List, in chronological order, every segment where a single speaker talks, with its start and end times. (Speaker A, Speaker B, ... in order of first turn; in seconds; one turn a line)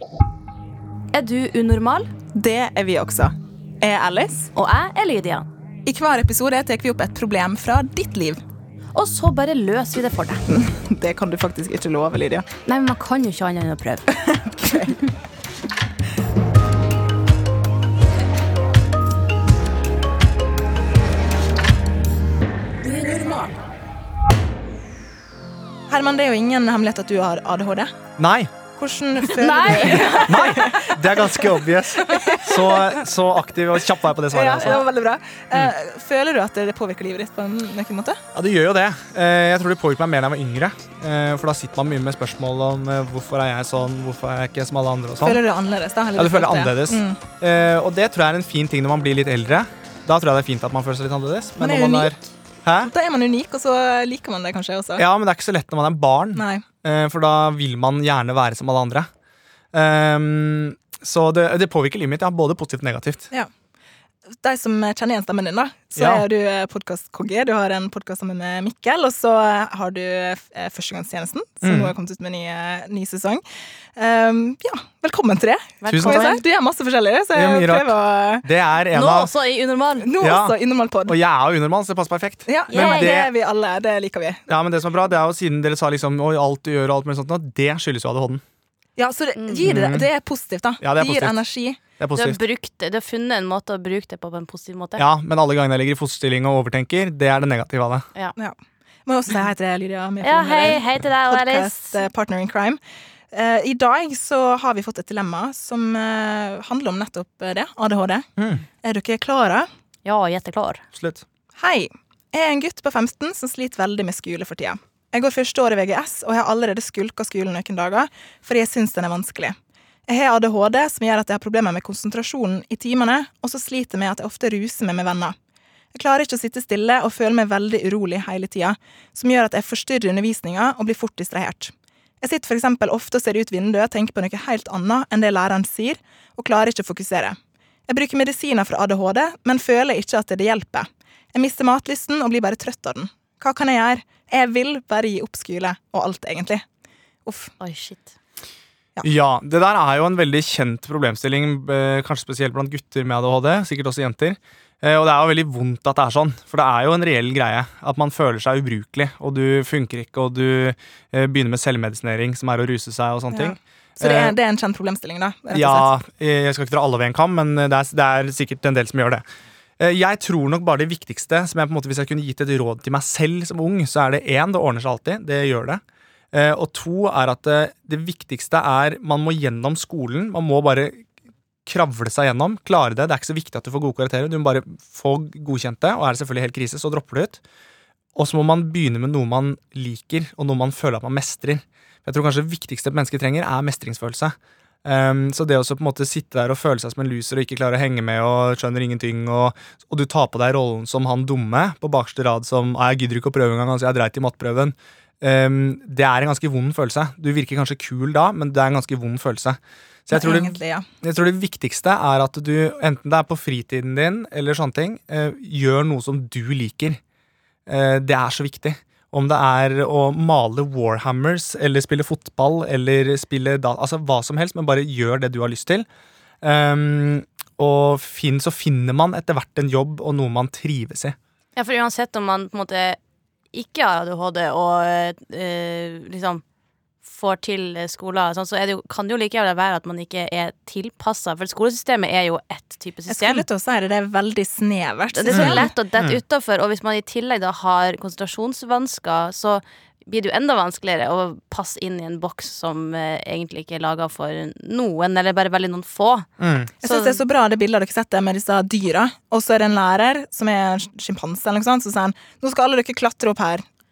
Speaker A: 1.1-2.1
Speaker B: 2.4-4.5
Speaker A: 4.5-5.5
Speaker B: 5.9-8.4
Speaker A: 8.9-10.4
Speaker B: 10.5-12.5
Speaker A: 12.7-15.1
Speaker B: 14.2-15.0
Speaker A: 23.0-23.5
Speaker B: 25.9-27.9
Speaker C: 28.2-28.5
Speaker B: 28.8-33.0
Speaker A: 29.2-30.6
Speaker C: 29.8-34.8
Speaker B: 34.3-38.2
Speaker A: 34.6-34.9
Speaker C: 38.3-45.4
Speaker B: 45.2-47.2
Speaker C: 46.2-52.9
Speaker B: 51.6-52.1
Speaker B: 52.9-55.0
Speaker C: 55.0-59.1
Speaker B: 56.4-56.6
Speaker C: 59.7-63.3
Speaker B: 64.4-73.4
Speaker C: 66.0-66.2
Speaker C: 71.6-71.9
Speaker B: 74.0-78.5
Speaker A: 75.8-76.4
Speaker C: 75.9-76.3
Speaker C: 77.3-79.3
Speaker A: 78.9-80.1
Speaker B: 80.0-81.2
Speaker C: 80.2-83.3
Speaker B: 82.5-84.4
Speaker A: 82.7-83.3
Speaker C: 84.5-88.4
Speaker B: 89.0-91.8
Speaker A: 89.4-89.8
Speaker C: 89.7-90.1
Speaker C: 90.8-91.4
Speaker C: 92.0-92.4
Speaker A: 92.2-95.0
Speaker C: 95.0-98.1
Speaker B: 98.4-102.8
Speaker A: 100.2-102.1
Speaker B: 103.3-109.7
Speaker C: 108.4-108.6
Speaker A: 110.0-110.8
Speaker C: 110.9-111.2
Speaker B: 111.6-119.5
Speaker B: 120.1-125.3
Speaker B: 125.9-137.4
Speaker B: 137.9-146.6
Speaker B: 147.3-147.5
Speaker A: 147.6-148.1
Speaker C: 149.0-164.3
Speaker B: 163.3-165.9
Speaker C: 165.5-169.2
Speaker C: 169.8-175.8
Speaker C: 176.3-181.1
Speaker C: 181.7-187.4
Speaker C: 188.2-217.0
Speaker B: 210.1-210.9
Speaker C: 217.7-225.9
Speaker C: 226.4-231.2
Speaker A: 231.6-233.0
Speaker A: 233.5-236.4
Speaker A: 237.0-243.4
Speaker B: 243.1-245.7
Speaker A: 245.1-256.3
Speaker C: 245.3-246.2
Speaker C: 256.4-256.7
Speaker A: 256.8-257.2
Speaker B: 256.8-263.6